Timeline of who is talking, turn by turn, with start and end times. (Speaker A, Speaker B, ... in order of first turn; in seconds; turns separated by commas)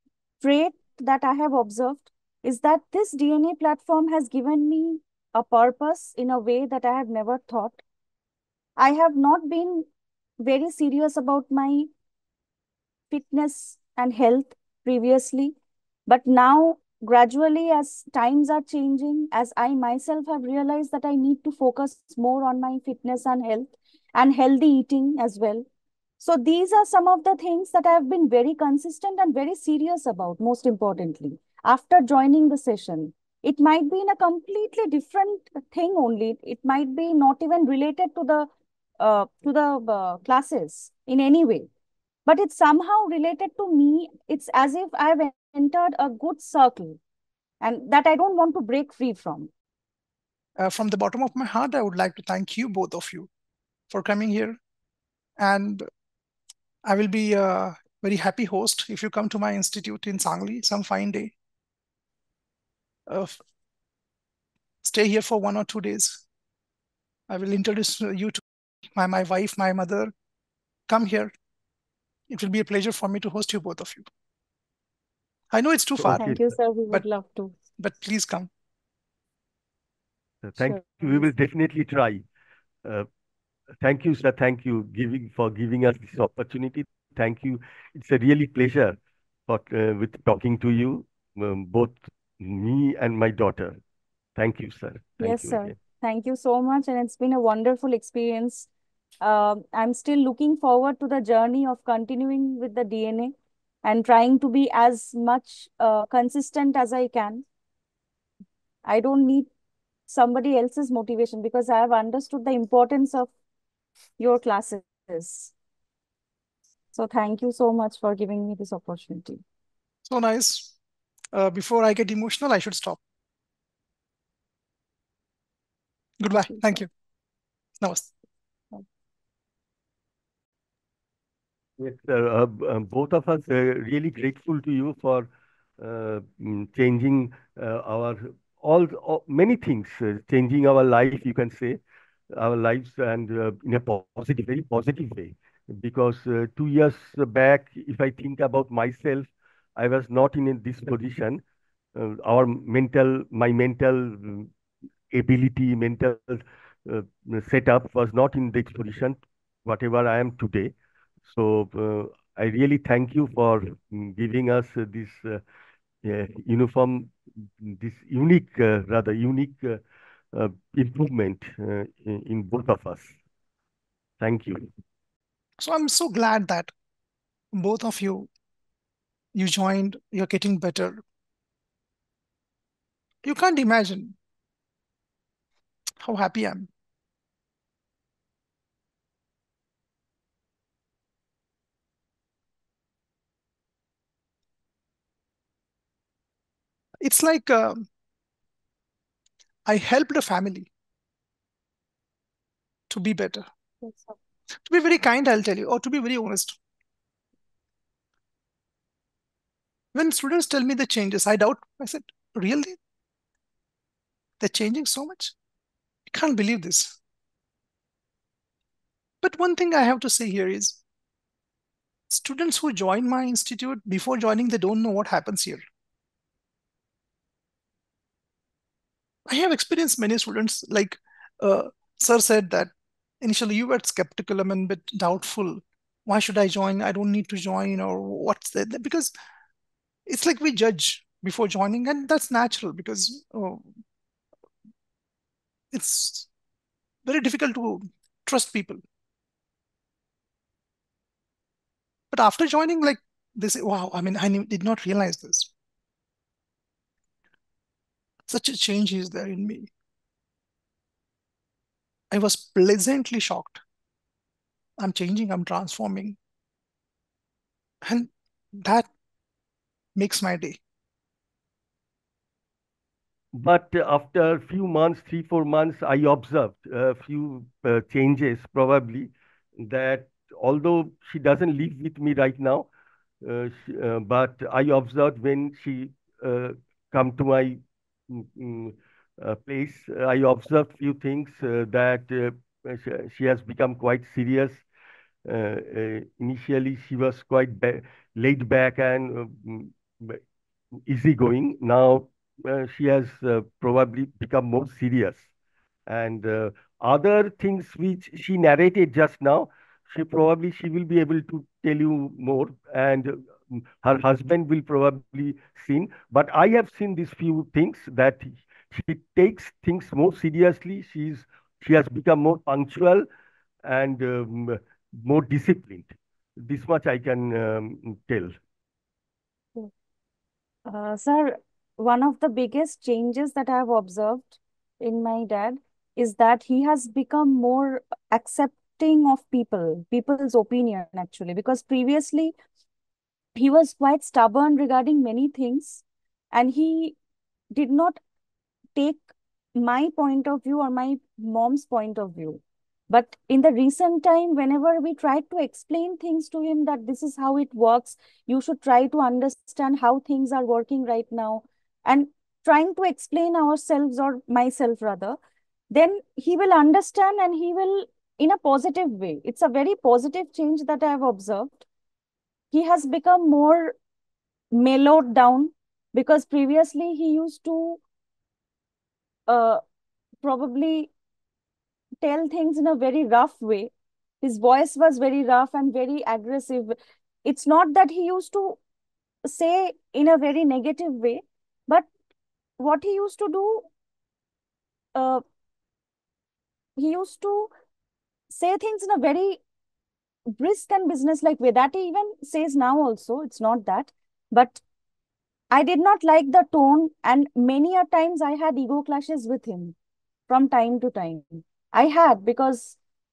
Speaker A: 0.4-7.8, Speaker A: 8.8-9.9, Speaker A: 10.4-11.9, Speaker A: 13.1-15.6, Speaker A: 16.1-25.6, Speaker A: 26.2-38.5, Speaker A: 39.0-41.7, Speaker A: 42.2-47.0, Speaker A: 47.6-49.5, Speaker B: 50.6-53.3, Speaker B: 53.9-54.6, Speaker B: 55.4-55.8, Speaker B: 56.8-61.3, Speaker B: 63.1-63.4, Speaker B: 64.8-66.2, Speaker B: 67.3-68.4, Speaker B: 68.9-70.1, Speaker B: 70.9-71.3, Speaker B: 72.3-74.0, Speaker B: 75.5-76.3, Speaker C: 76.0-76.5, Speaker A: 76.1-77.5, Speaker B: 77.8-78.5, Speaker C: 80.4-82.2, Speaker A: 80.6-81.3, Speaker C: 83.8-89.0, Speaker C: 89.5-93.8, Speaker C: 94.3-95.7, Speaker A: 95.2-98.7, Speaker A: 99.2-103.3, Speaker A: 103.8-107.4, Speaker A: 108.8-109.5, Speaker A: 110.1-113.3, Speaker A: 114.2-115.5, Speaker A: 116.9-119.4, Speaker B: 120.0-120.7, Speaker B: 121.3-123.0, Speaker B: 126.2-126.9, Speaker A: 126.5-126.8, Speaker B: 127.8-128.1, Speaker C: 131.8-135.3, Speaker C: 135.8-141.8, Speaker C: 142.3-151.4, Speaker C: 151.9-154.5, Speaker C: 155.1-160.7, Speaker C: 161.2-165.4, Speaker C: 166.0-169.8, Speaker C: 170.3-173.1, Speaker C: 174.2-174.7, Speaker B: 175.6-176.7, Speaker B: 177.5-178.3, Speaker B: 179.3-181.0, Speaker B: 183.2-184.2, Speaker B: 186.0-186.7, Speaker B: 197.0-197.8, Speaker B: 199.7-200.7, Speaker B: 202.9-203.4, Speaker A: 203.8-204.1, Speaker B: 204.7-206.6, Speaker B: 209.9-212.8, Speaker B: 214.4-215.3, Speaker B: 216.1-217.0, Speaker B: 219.2-220.8, Speaker B: 222.1-225.6, Speaker B: 229.3-239.1, Speaker B: 240.1-243.6, Speaker B: 245.7-246.3, Speaker B: 247.0-248.8, Speaker B: 252.1-255.5, Speaker B: 258.3-259.7, Speaker B: 262.1-263.6, Speaker B: 264.8-266.2, Speaker B: 267.8-268.9, Speaker B: 269.9-270.6, Speaker C: 273.3-282.7, Speaker C: 283.2-294.6, Speaker C: 295.2-300.2, Speaker C: 300.9-305.2, Speaker C: 305.9-323.1, Speaker C: 323.6-328.3, Speaker A: 330.6-342.3, Speaker A: 343.3-347.0, Speaker A: 347.5-348.0, Speaker A: 348.8-349.0, Speaker A: 349.5-365.2, Speaker A: 365.7-371.6, Speaker A: 372.5-373.8, Speaker A: 374.5-377.8, Speaker A: 379.3-379.6, Speaker A: 380.2-380.9, Speaker A: 382.0-388.6, Speaker A: 389.2-391.9, Speaker A: 392.6-393.7, Speaker A: 394.9-395.2, Speaker A: 396.8-397.5, Speaker A: 398.3-399.4, Speaker A: 400.4-404.6, Speaker A: 405.5-409.7, Speaker A: 410.3-412.8